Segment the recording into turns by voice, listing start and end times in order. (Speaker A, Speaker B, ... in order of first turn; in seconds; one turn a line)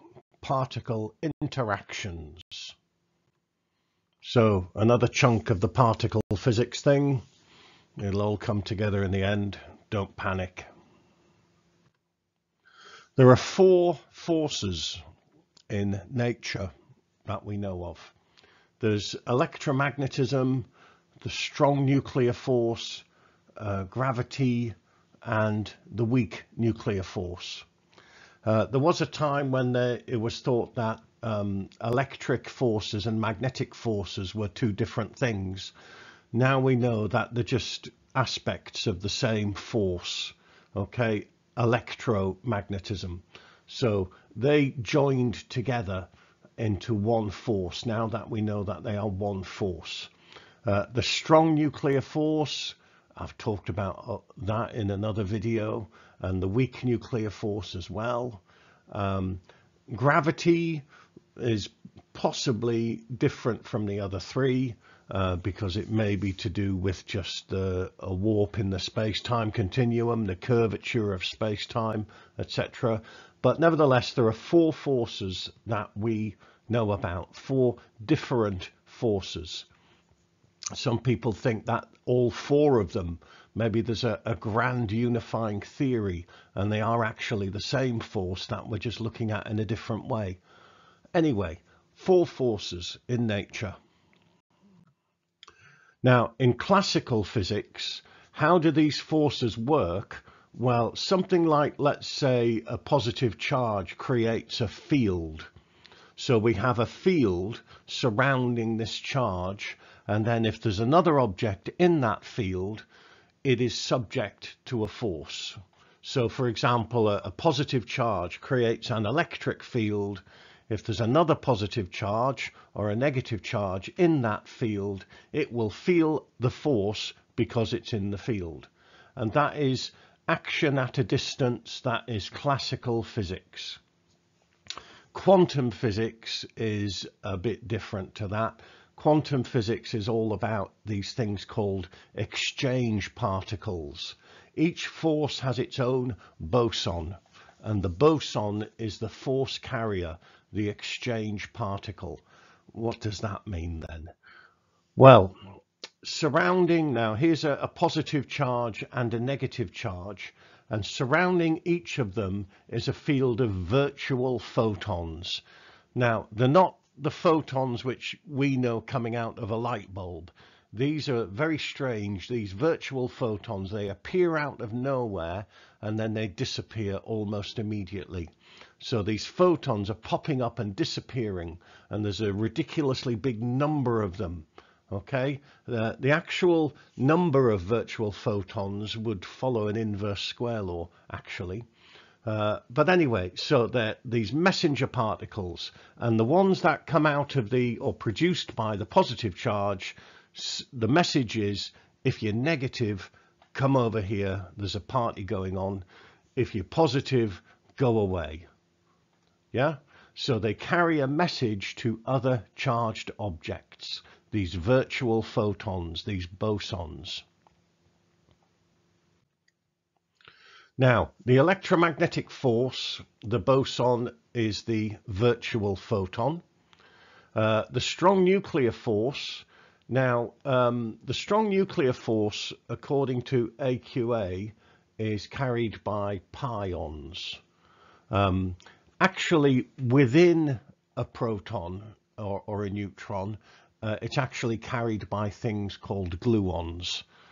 Speaker A: 0.4-2.8
Speaker A: 4.2-7.2
Speaker A: 8.0-10.7
Speaker A: 13.2-15.0
Speaker A: 15.7-16.7
Speaker A: 17.3-18.1
Speaker A: 18.8-20.7
Speaker A: 21.2-23.1
Speaker A: 23.6-27.7
Speaker A: 28.4-35.7
Speaker A: 36.3-50.1
Speaker A: 50.6-60.9
Speaker A: 61.4-79.7
Speaker A: 80.8-90.4
Speaker A: 91.1-93.8
Speaker A: 96.0-105.5
Speaker A: 106.2-112.8
Speaker A: 113.4-133.8
Speaker A: 135.1-154.1
Speaker A: 155.0-155.4
Speaker A: 156.0-165.4
Speaker A: 166.0-191.7
Speaker A: 192.2-205.8
Speaker A: 206.4-208.5
Speaker A: 209.5-217.3
Speaker A: 220.8-226.4
Speaker A: 227.3-237.4
Speaker A: 238.1-247.1